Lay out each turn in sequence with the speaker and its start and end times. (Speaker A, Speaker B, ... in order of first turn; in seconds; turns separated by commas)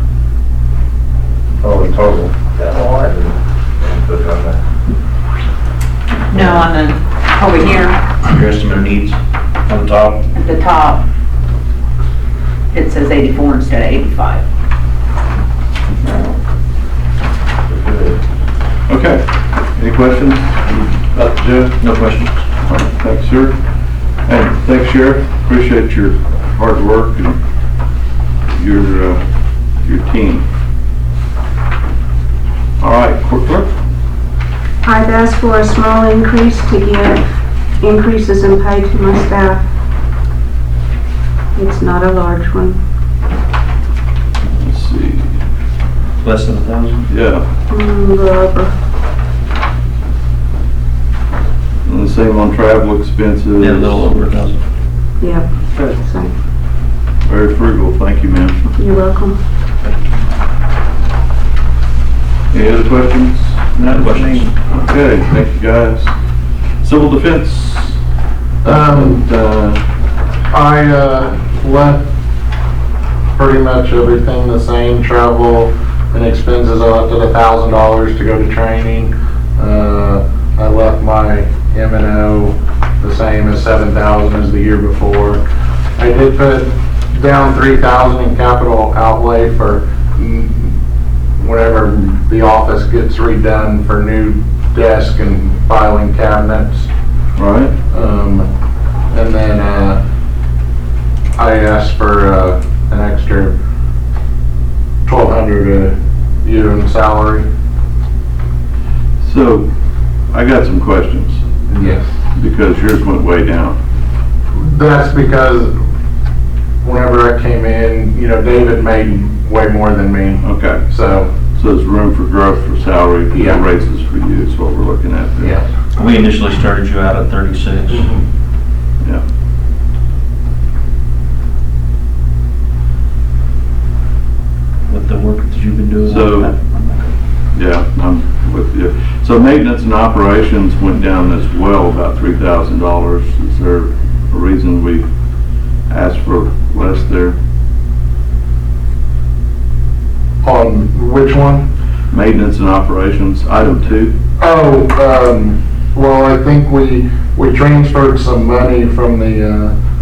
Speaker A: 1.6-2.3, Speaker B: 2.5-3.1, Speaker A: 2.9-4.6, Speaker B: 6.3-8.1, Speaker C: 6.3-6.7, Speaker C: 8.2-10.2, Speaker B: 10.3-11.0, Speaker B: 12.7-14.4, Speaker A: 17.7-18.2, Speaker D: 18.9-20.6, Speaker C: 21.0-22.4, Speaker D: 22.6-23.6, Speaker D: 24.2-27.4, Speaker D: 28.5-29.2, Speaker D: 29.8-30.4, Speaker D: 32.8-33.7, Speaker E: 34.9-37.2, Speaker E: 37.8-39.6, Speaker E: 41.5-42.8, Speaker D: 44.6-45.4, Speaker C: 46.2-47.1, Speaker D: 47.1-47.4, Speaker E: 47.7-48.7, Speaker D: 51.8-54.1, Speaker C: 53.6-54.6, Speaker E: 55.2-56.3, Speaker D: 57.2-58.7, Speaker E: 58.8-59.4, Speaker D: 62.5-66.1, Speaker C: 63.8-64.5, Speaker D: 66.8-68.0, Speaker F: 68.6-69.2, Speaker D: 68.6-69.8, Speaker F: 70.5-72.0, Speaker F: 73.3-85.4, Speaker F: 86.0-90.7, Speaker F: 91.4-96.9, Speaker D: 97.3-97.7, Speaker F: 97.9-98.5, Speaker F: 99.1-100.0, Speaker F: 101.4-103.5, Speaker F: 105.0-107.4, Speaker D: 109.2-109.7, Speaker D: 110.3-111.4, Speaker F: 111.7-112.0, Speaker D: 112.3-113.7, Speaker F: 114.5-115.7, Speaker F: 116.8-121.3, Speaker D: 120.4-120.8, Speaker D: 121.5-125.6, Speaker F: 123.3-123.6, Speaker F: 125.4-125.7, Speaker C: 126.0-128.1, Speaker F: 127.9-128.2, Speaker C: 134.9-137.2, Speaker D: 136.1-136.5, Speaker D: 137.5-145.1, Speaker D: 145.9-147.3, Speaker F: 150.4-151.7, Speaker D: 152.1-154.1, Speaker F: 154.4-159.7